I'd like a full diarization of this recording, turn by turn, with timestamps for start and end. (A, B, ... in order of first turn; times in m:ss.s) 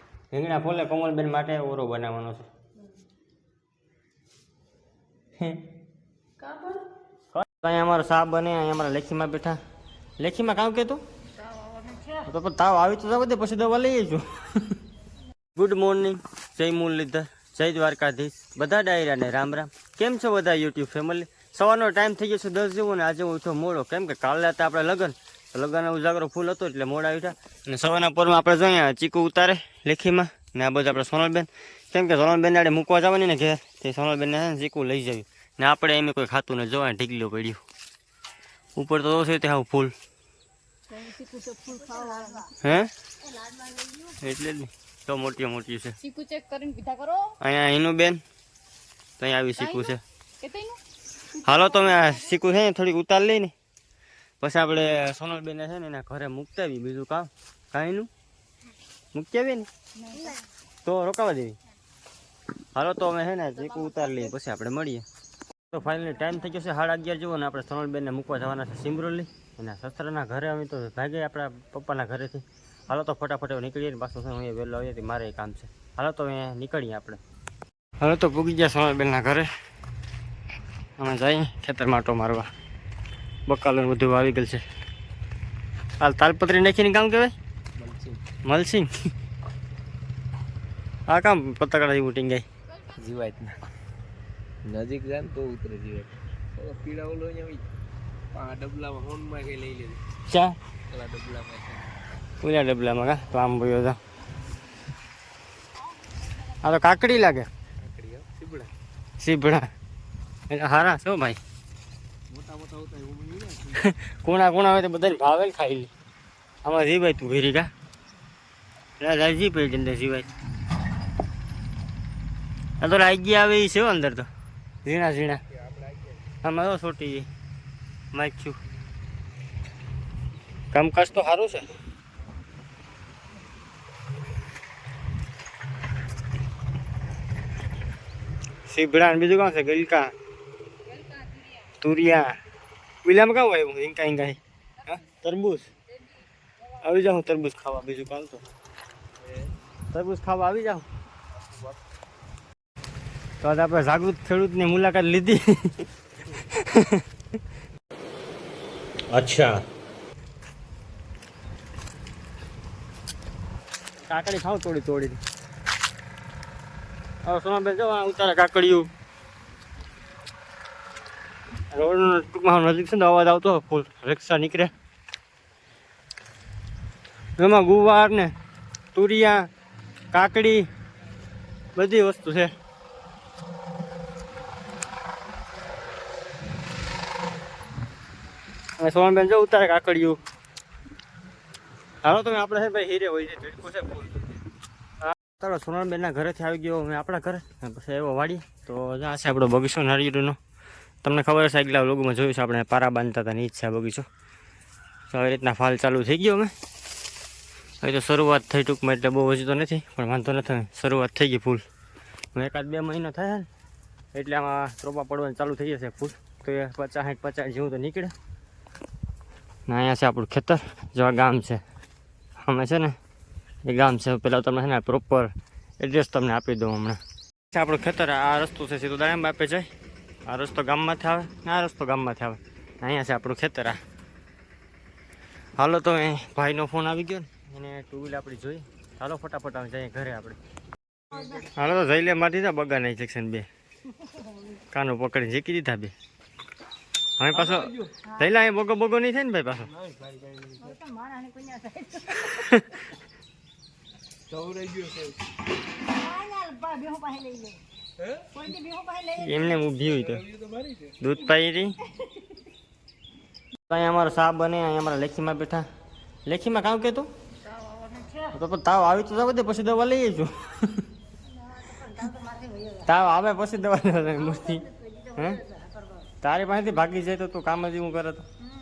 0:00.3-0:02.5 A
0:05.4-0:05.6 A
0:07.3-0:09.6 A
0:10.2-0:11.0 A
0:12.2-0:14.8 A
0:15.5-0:37.6 A
0:38.8-0:39.9 A
0:40.9-0:42.4 B
0:41.9-0:42.3 C
0:42.6-0:42.9 A
0:44.1-0:46.0 A
0:46.0-0:47.3 B
0:47.4-0:48.2 A
0:49.2-0:50.0 A
0:49.6-0:50.8 B
0:51.3-0:53.5 A
0:54.4-0:58.1 A
0:59.1-0:59.7 A
1:00.8-1:01.6 A
1:02.7-1:05.0 A
1:05.7-1:17.2 A
1:18.0-1:19.5 A
1:21.0-1:22.5 A
1:23.5-1:24.6 A
1:26.0-1:27.3 A
1:27.8-1:28.2 C
1:28.4-1:28.9 A
1:31.1-1:32.4 A
1:32.9-1:33.6 C
1:34.6-1:37.7 C
1:38.3-1:40.0 C
1:40.3-1:40.6 A
1:40.9-1:41.9 C
1:42.4-1:44.0 A
1:46.5-1:47.5 A
1:47.8-1:48.7 C
1:49.2-1:49.7 A
1:50.5-1:51.4 A
1:52.3-1:53.8 C
1:53.7-1:55.9 A
1:56.6-1:57.7 A
1:59.0-2:00.3 A
2:02.8-2:04.3 A
2:04.8-2:05.4 A
2:06.4-2:07.3 A
2:08.1-2:08.6 A
2:10.7-2:11.7 A
2:18.7-2:20.1 A
2:21.7-2:22.4 A
2:23.0-2:25.7 A
2:26.7-2:28.4 A
2:29.2-2:29.5 C
2:29.9-2:30.8 A
2:33.4-2:37.0 A
2:39.1-2:39.6 A
2:44.0-2:45.2 A
2:47.2-2:48.9 A
2:51.7-2:54.7 A
2:57.4-2:58.3 A
2:58.9-2:59.5 A
3:00.1-3:00.7 A
3:01.8-3:02.5 A
3:08.8-3:10.2 A
3:12.0-3:14.2 A
3:15.0-3:20.4 A
3:21.0-3:24.0 A
3:25.1-3:26.5 A
3:27.8-3:31.6 A
3:32.3-3:33.5 A
3:34.1-3:38.1 A
3:39.7-3:41.6 A
3:42.4-3:42.9 A
3:43.6-3:47.0 A
3:47.5-3:49.7 A
3:50.3-3:53.8 A
3:55.6-4:00.4 A
4:01.3-4:03.5 A
4:04.7-4:05.9 A
4:07.2-4:09.7 A
4:07.8-4:08.2 C
4:09.9-4:12.5 C
4:12.1-4:12.8 A
4:14.3-4:15.1 C
4:15.9-4:17.6 C
4:18.2-4:19.4 C
4:19.1-4:20.3 A
4:20.3-4:20.8 C
4:21.0-4:21.8 A
4:23.7-4:25.7 A
4:26.2-4:27.1 A
4:27.5-4:28.3 C
4:28.3-4:30.8 A
4:31.3-4:32.8 C
4:32.8-4:34.6 A
4:34.2-4:36.1 C
4:36.2-4:38.2 A